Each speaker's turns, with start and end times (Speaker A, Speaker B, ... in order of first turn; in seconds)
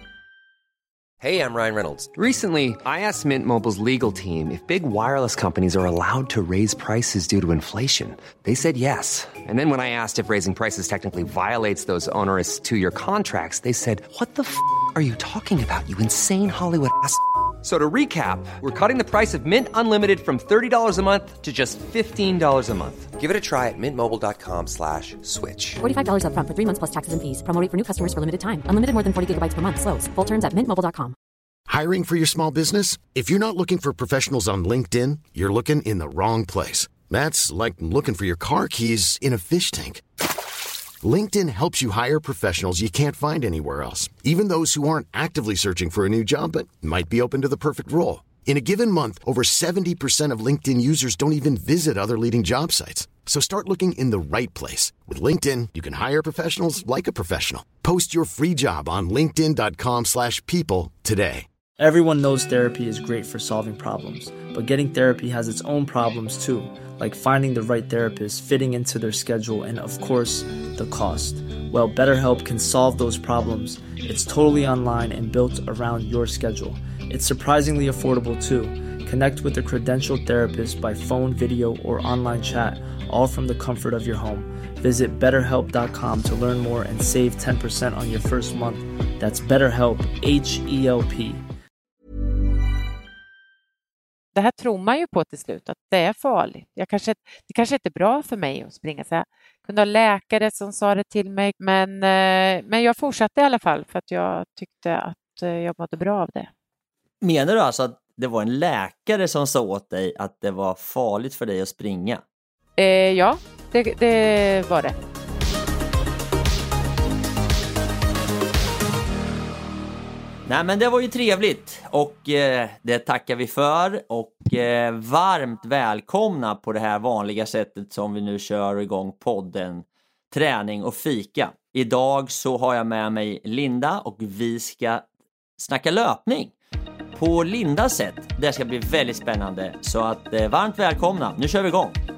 Speaker A: 1.2-25.8
Speaker B: 25.8-31.1
Speaker C: 31.7-40.0, 41.0-61.5
Speaker D: 61.8-91.4
Speaker E: 94.3-106.5, 112.8-114.9
Speaker F: 107.2-112.2, 120.5-135.1, 135.6-136.5, 137.1-142.0